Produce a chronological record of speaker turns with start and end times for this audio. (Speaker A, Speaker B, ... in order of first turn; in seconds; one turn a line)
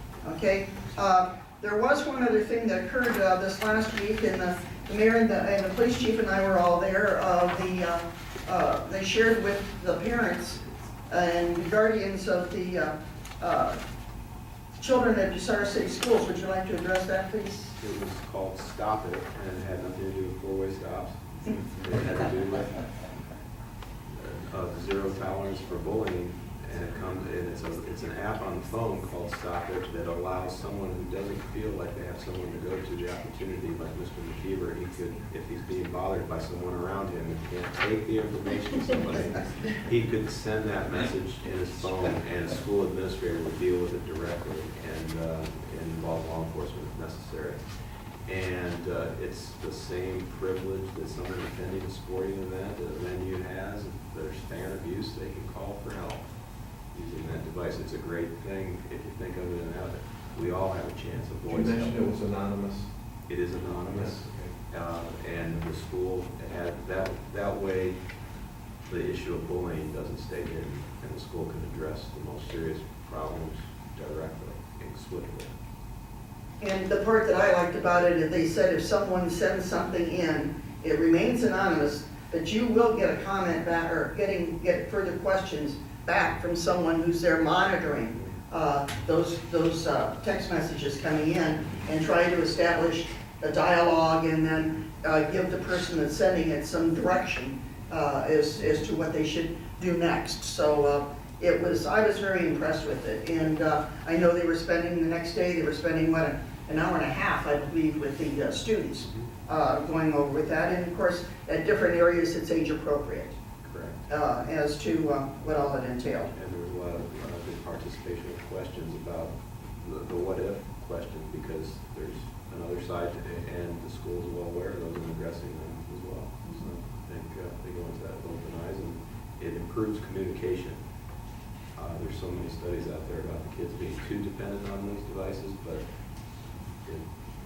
Speaker A: 0.2-13.8
Speaker A: 14.8-17.7
Speaker B: 17.8-22.8
Speaker B: 24.2-47.6
Speaker B: 48.2-56.2
Speaker B: 56.9-62.1
Speaker C: 61.5-62.9
Speaker B: 63.3-68.0
Speaker C: 63.9-64.5
Speaker B: 68.8-75.5
Speaker A: 76.6-113.3
Speaker B: 113.6-114.0
Speaker A: 114.1-116.3
Speaker B: 116.3-130.8
Speaker B: 131.7-135.8